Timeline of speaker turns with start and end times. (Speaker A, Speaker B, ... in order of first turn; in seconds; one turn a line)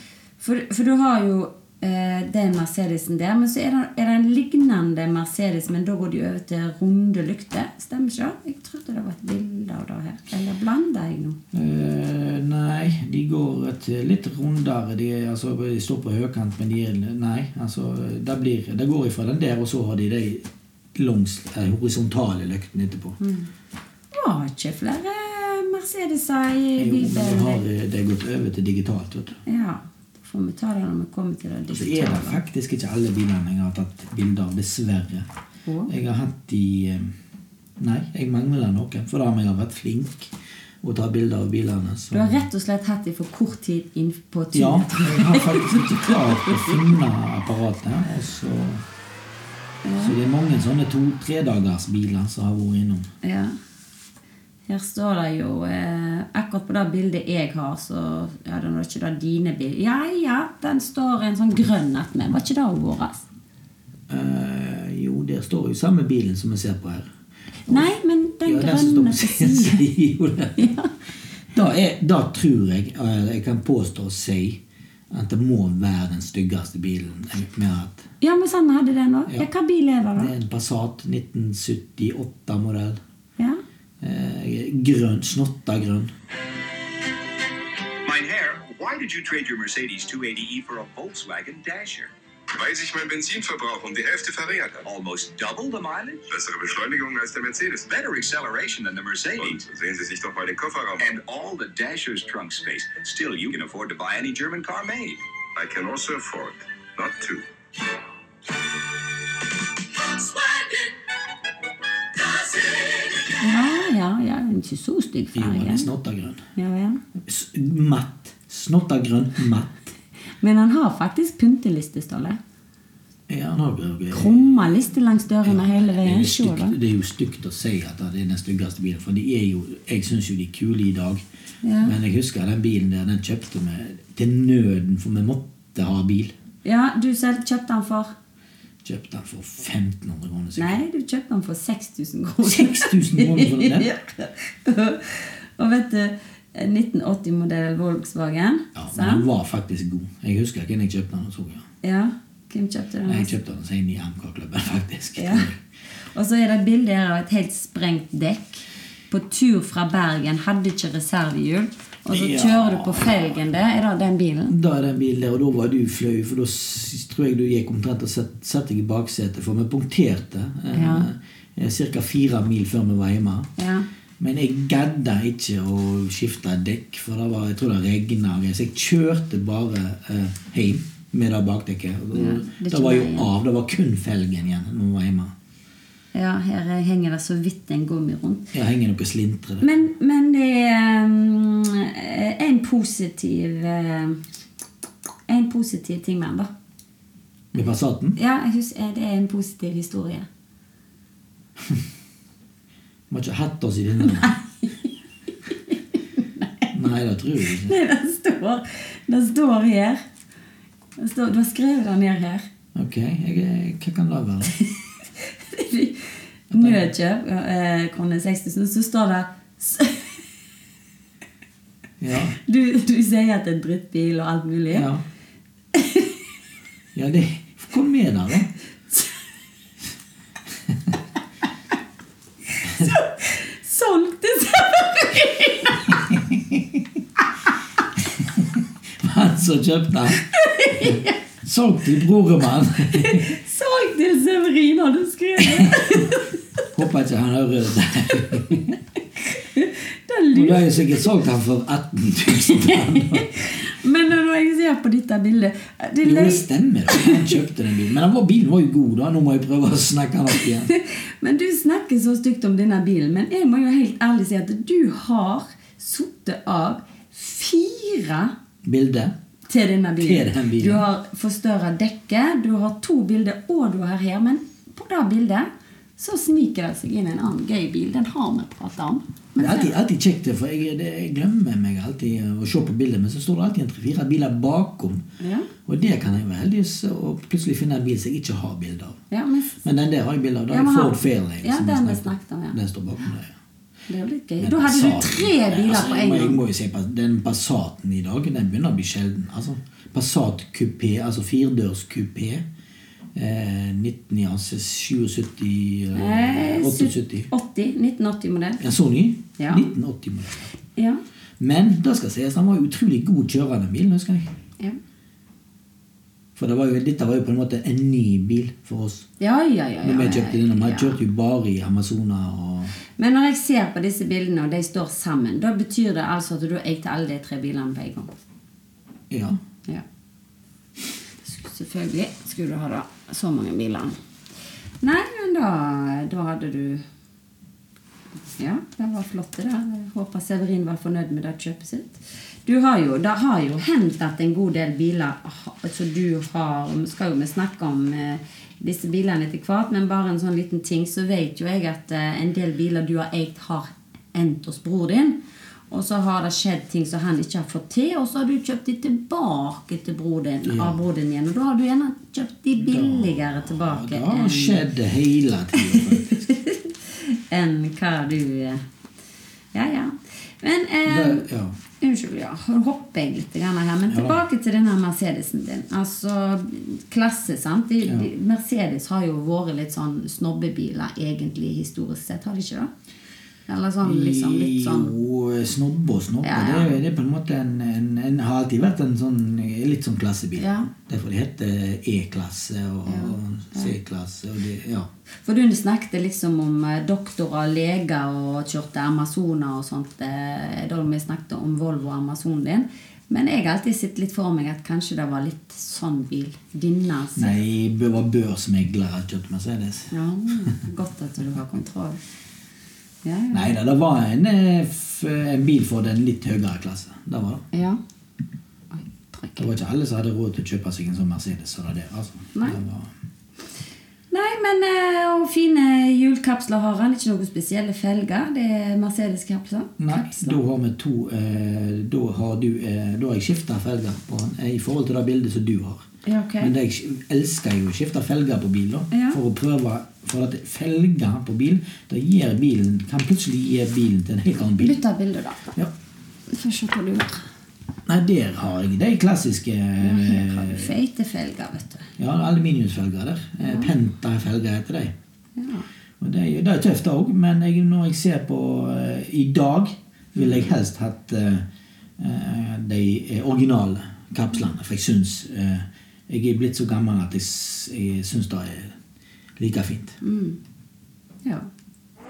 Speaker A: 0.4-11.4
Speaker B: 11.5-23.2
Speaker A: 23.2-23.5
Speaker A: 24.1-27.6
Speaker B: 26.8-29.4
Speaker A: 29.4-32.4
Speaker B: 31.7-35.3
Speaker A: 35.7-35.9
Speaker B: 35.9-37.1
Speaker B: 37.8-42.4
Speaker A: 42.1-46.9
Speaker B: 44.5-48.8
Speaker A: 49.8-50.1
Speaker B: 50.0-53.1
Speaker A: 53.2-53.5
Speaker A: 54.7-63.2
Speaker B: 64.1-67.1
Speaker A: 67.7-69.8
Speaker B: 68.4-70.7
Speaker A: 70.6-70.9
Speaker B: 71.5-78.1
Speaker A: 78.2-80.3
Speaker B: 80.2-83.0
Speaker B: 84.0-86.1
Speaker C: 88.0-92.1
Speaker D: 92.5-94.8
Speaker C: 94.8-96.3
Speaker D: 96.3-97.9
Speaker C: 97.8-99.6
Speaker D: 99.4-101.1
Speaker C: 101.0-105.2
Speaker D: 105.5-107.4
Speaker A: 113.3-115.9
Speaker B: 115.3-116.4
Speaker A: 116.5-117.0
Speaker B: 117.2-119.9
Speaker A: 120.4-122.4
Speaker B: 123.3-124.7
Speaker A: 124.1-126.8
Speaker B: 125.4-131.2
Speaker A: 131.6-131.9
Speaker B: 131.8-136.3
Speaker A: 136.6-138.1
Speaker B: 138.8-140.8
Speaker A: 140.6-149.2
Speaker B: 142.4-143.9
Speaker B: 148.7-151.6
Speaker A: 151.8-153.3
Speaker B: 153.1-155.6
Speaker A: 155.2-155.5
Speaker A: 156.1-164.5
Speaker B: 162.1-163.3
Speaker B: 164.5-173.5
Speaker A: 170.7-171.1
Speaker A: 173.6-173.9
Speaker B: 174.2-185.3
Speaker A: 182.1-183.3
Speaker A: 186.1-188.5
Speaker B: 188.5-189.7
Speaker A: 189.6-194.2
Speaker A: 195.3-196.5
Speaker B: 197.5-198.2
Speaker A: 198.2-200.3
Speaker B: 203.1-204.3
Speaker A: 204.1-204.8
Speaker A: 205.7-206.7
Speaker B: 206.7-207.7
Speaker A: 207.6-210.0
Speaker A: 211.0-212.5
Speaker B: 212.7-214.6
Speaker A: 214.7-220.2
Speaker B: 216.5-216.9
Speaker B: 222.0-222.4
Speaker A: 222.4-224.9
Speaker B: 224.7-225.0
Speaker A: 225.7-226.2
Speaker B: 226.9-228.5
Speaker B: 230.7-230.9
Speaker B: 232.6-232.9
Speaker A: 232.8-235.9
Speaker B: 236.2-236.6
Speaker B: 239.0-240.2
Speaker A: 240.3-241.2
Speaker B: 240.8-243.4
Speaker A: 242.9-246.4
Speaker B: 245.5-246.0
Speaker B: 246.7-248.8
Speaker A: 249.3-251.1
Speaker B: 250.3-253.3
Speaker A: 252.5-257.4
Speaker B: 256.0-260.7
Speaker A: 260.6-268.3
Speaker B: 268.6-269.1
Speaker A: 269.5-279.7
Speaker B: 270.0-270.9
Speaker B: 279.4-285.0
Speaker A: 285.2-285.5
Speaker B: 285.6-289.0
Speaker A: 289.1-289.6
Speaker B: 289.6-293.3
Speaker A: 290.5-292.6
Speaker A: 293.9-296.4
Speaker B: 294.4-302.4
Speaker B: 303.1-307.3
Speaker A: 305.9-308.6
Speaker B: 308.6-310.5
Speaker A: 309.4-309.7
Speaker A: 310.8-311.0
Speaker B: 311.4-314.3
Speaker B: 316.4-319.1
Speaker A: 319.2-321.0
Speaker B: 319.8-322.7
Speaker A: 323.0-328.1
Speaker B: 329.1-329.4
Speaker A: 331.2-333.9
Speaker A: 334.8-336.8
Speaker A: 338.3-364.6
Speaker B: 360.4-360.8
Speaker B: 362.6-366.3
Speaker A: 365.6-368.6
Speaker A: 369.5-382.7
Speaker B: 370.9-371.6
Speaker B: 373.9-374.2
Speaker A: 383.5-384.9
Speaker B: 383.8-394.9
Speaker A: 386.2-386.8
Speaker A: 390.4-390.7
Speaker A: 392.9-393.7
Speaker A: 395.2-407.4
Speaker B: 407.1-409.9
Speaker A: 409.9-412.0
Speaker A: 413.0-413.6
Speaker B: 413.3-417.4
Speaker A: 417.5-417.8
Speaker A: 418.7-419.5
Speaker B: 419.4-422.9
Speaker A: 422.3-422.6
Speaker A: 424.1-430.4
Speaker B: 429.8-435.8
Speaker A: 436.0-436.5
Speaker B: 436.4-444.8
Speaker A: 438.9-439.2
Speaker A: 444.6-445.6
Speaker A: 446.3-447.2
Speaker B: 447.9-450.7
Speaker A: 449.8-451.9
Speaker B: 452.0-454.9
Speaker A: 453.4-453.7
Speaker A: 455.4-455.7
Speaker B: 456.0-461.4
Speaker A: 460.2-460.4
Speaker B: 462.0-468.8
Speaker B: 469.4-470.0
Speaker A: 470.0-470.4